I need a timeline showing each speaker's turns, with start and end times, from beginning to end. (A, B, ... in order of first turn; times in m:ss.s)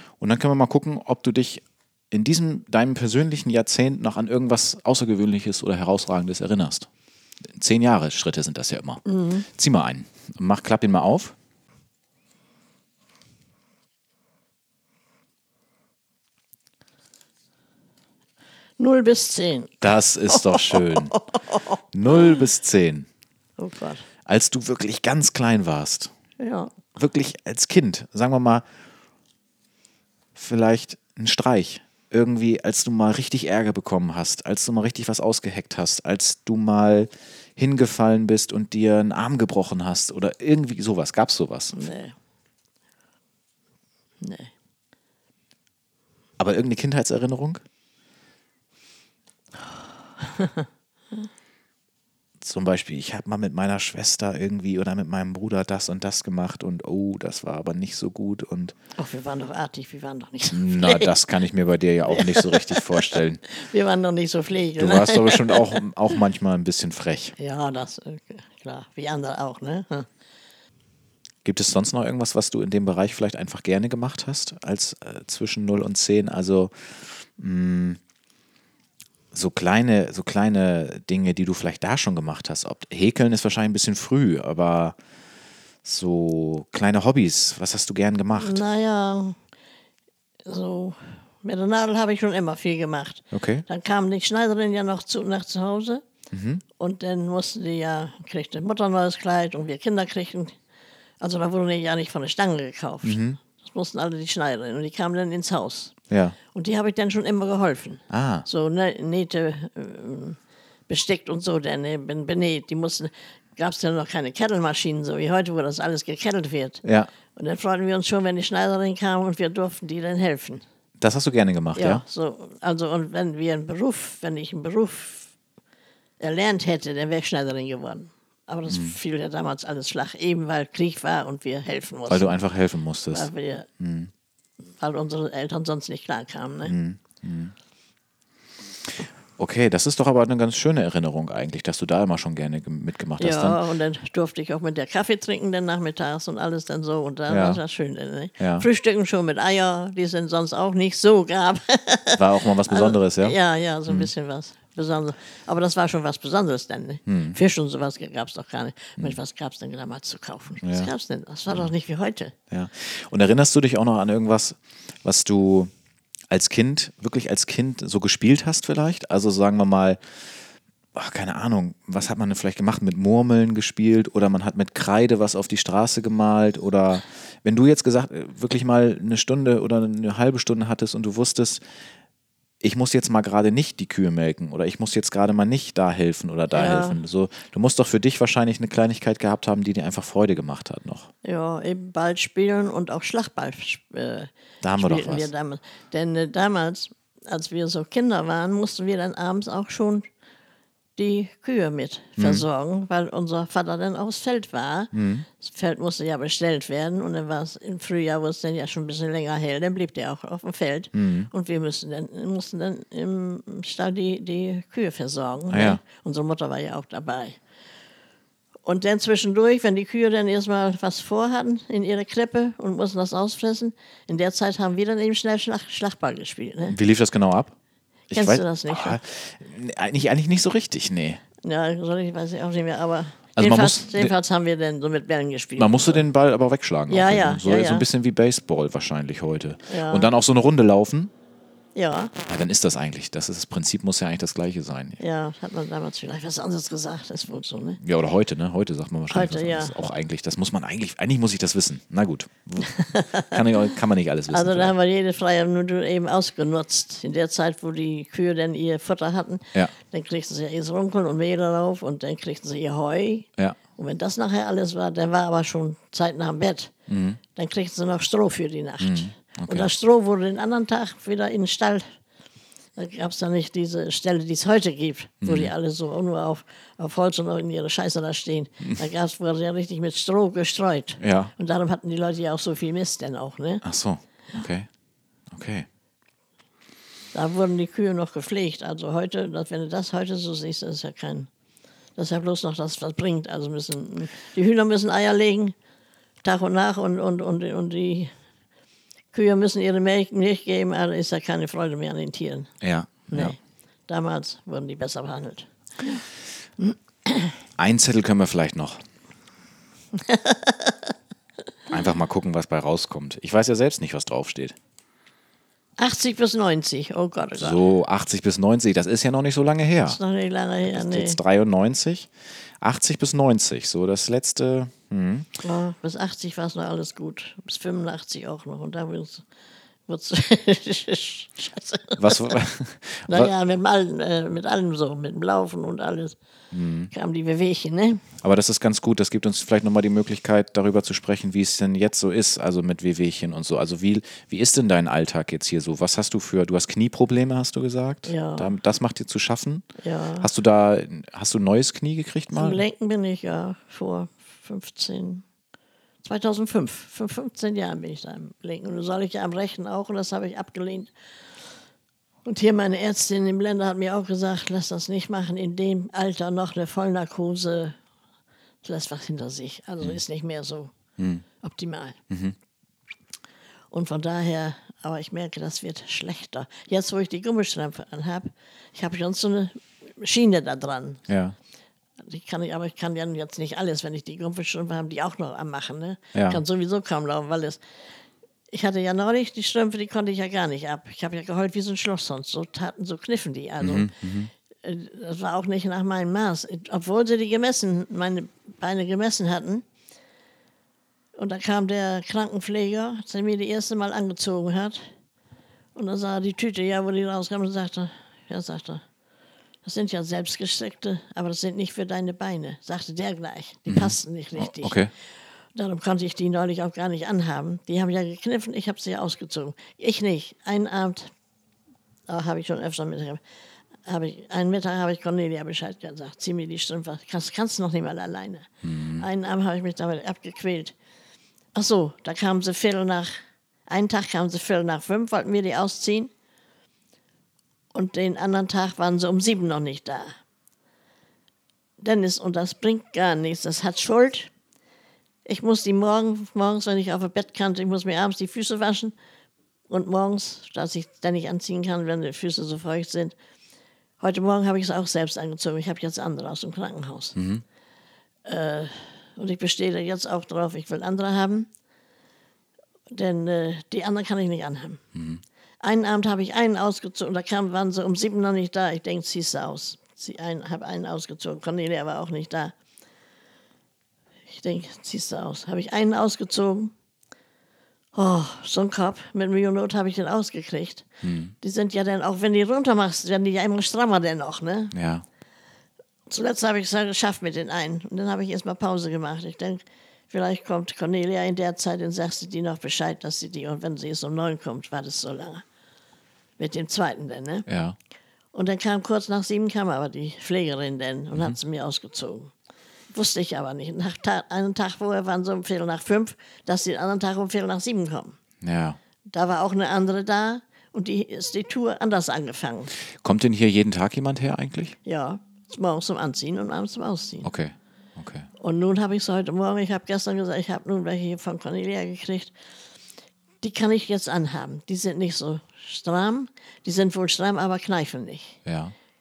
0:00.2-0:06.9 A
0:07.5-0:11.4 A
0:09.0-0:09.5 B
0:18.8-0:22.4 B
0:19.8-0:21.1 A
0:21.9-0:23.1 A
0:23.6-0:24.1 B
0:24.3-0:26.1 A
0:26.4-0:26.7 B
0:27.0-0:28.6 A
0:30.4-0:41.8 A
0:41.7-0:42.2 B
0:44.2-0:44.5 B
0:46.4-0:47.6 A
0:50.2-0:50.7 B
0:52.4-0:58.8 A
0:59.0-1:01.2 B
1:00.5-1:03.4 A
1:02.1-1:05.8 B
1:04.8-1:07.4 A
1:07.4-1:10.1 B
1:11.4-1:18.0 A
1:19.3-1:25.0 A
1:25.8-1:28.6 A
1:28.4-1:29.4 B
1:30.4-1:36.0 B
1:33.3-1:33.6 A
1:36.3-1:36.6 A
1:36.8-1:40.6 B
1:41.2-1:45.9 B
1:43.0-1:43.4 A
1:46.1-1:46.4 A
1:46.5-1:50.4 B
1:48.1-1:48.5 A
1:50.9-1:56.8 B
1:56.8-1:57.1 A
1:57.4-2:00.6 B
2:01.0-2:02.0 A
2:01.8-2:05.3 B
2:06.2-2:12.4 B
2:08.7-2:09.0 A
2:12.1-2:14.1 A
2:13.1-2:13.7 B
2:14.8-2:16.7 B
2:16.6-2:17.5 A
2:19.4-2:23.6 A
2:23.2-2:42.4 B
2:27.3-2:27.6 A
2:28.4-2:28.7 A
2:32.2-2:34.1 A
2:37.1-2:37.4 A
2:40.6-2:40.9 A
2:42.5-2:45.7 A
2:46.3-2:50.0 A
2:51.0-3:01.6 A
3:02.6-3:11.1 A
3:06.5-3:07.0 B
3:11.2-3:20.1 B
3:14.6-3:15.3 A
3:21.0-3:37.4 B
3:22.2-3:22.5 A
3:24.9-3:25.3 A
3:30.9-3:31.3 A
3:35.5-3:35.8 A
3:38.6-3:46.8 B
3:46.7-3:47.5 A
3:48.1-3:49.0 B
3:48.1-3:51.2 A
3:51.4-3:56.0 B
3:53.4-3:54.1 A
3:55.6-4:01.1 A
3:56.9-3:57.9 B
3:59.7-4:00.1 B
4:01.8-4:02.1 B
4:02.2-4:05.0 A
4:05.0-4:07.8 B
4:07.8-4:14.7 A
4:09.1-4:09.8 B
4:12.6-4:13.4 B
4:14.3-4:26.7 B
4:26.9-4:27.2 A
4:27.4-4:31.9 B
4:28.8-4:29.7 A
4:32.8-4:43.6 B
4:35.2-4:35.5 A
4:41.0-4:41.3 A
4:43.6-4:44.7 A
4:45.3-4:45.7 A
4:47.1-4:51.3 B
4:52.0-4:55.6 B
4:56.2-4:58.1 B
4:59.1-5:02.5 B
5:02.6-5:03.4 A
5:03.1-5:03.4 B
5:03.9-5:06.0 B
5:06.6-5:07.3 B
5:07.6-5:08.8 A
5:09.9-5:10.9 B
5:11.7-5:14.6 A
5:15.8-5:17.6 B
5:17.4-5:20.0 A
5:19.8-5:21.2 B
5:20.7-5:22.1 A
5:22.6-5:25.3 A
5:25.4-5:29.2 B
5:29.9-5:32.4 B
5:32.0-5:33.3 A
5:33.1-5:36.2 B
5:36.5-5:36.9 A
5:36.9-5:38.0 B
5:38.2-5:49.7 A
5:48.1-5:48.5 B
5:49.8-5:50.3 B
5:50.2-5:52.6 A
5:52.3-5:55.2 B
5:56.0-6:00.9 B
6:02.2-6:07.8 B
6:08.6-6:10.7 B
6:11.0-6:11.2 A
6:11.4-6:12.0 B
6:12.1-6:12.4 A
6:13.7-6:21.0 B
6:21.1-6:21.4 A
6:22.0-6:27.6 B
6:26.2-6:26.4 A
6:28.5-6:33.9 B
6:33.6-6:34.3 A
6:34.6-6:39.6 B
6:41.2-6:44.9 B
6:45.8-6:48.8 B
6:49.6-6:54.8 B
6:53.7-6:54.9 A
6:55.6-7:01.1 B
7:02.1-7:03.2 B
7:03.8-7:10.7 B
7:08.6-7:09.1 A
7:11.6-7:13.1 B
7:13.7-7:16.1 B
7:17.7-7:20.1 B
7:21.8-7:24.3 B
7:25.3-7:28.9 B
7:29.7-7:33.2 B
7:34.0-7:37.2 B
7:37.2-7:37.4 A
7:38.2-7:41.5 B
7:42.9-7:44.8 B
7:45.0-7:45.2 A
7:45.6-7:52.5 B
7:54.3-7:56.7 B
7:58.0-8:00.9 B
8:01.0-8:01.3 A
8:01.4-8:04.7 B
8:04.7-8:05.0 A
8:06.1-8:15.4 B
8:16.4-8:17.5 B
8:17.5-8:17.8 A
8:18.3-8:22.3 B
8:22.9-8:28.2 B
8:28.4-8:28.8 A
8:29.1-8:32.7 B
8:33.0-8:34.8 A
8:34.8-8:37.3 B
8:37.2-8:38.3 A
8:38.4-8:42.3 B
8:43.4-8:48.4 B
8:48.5-8:48.7 A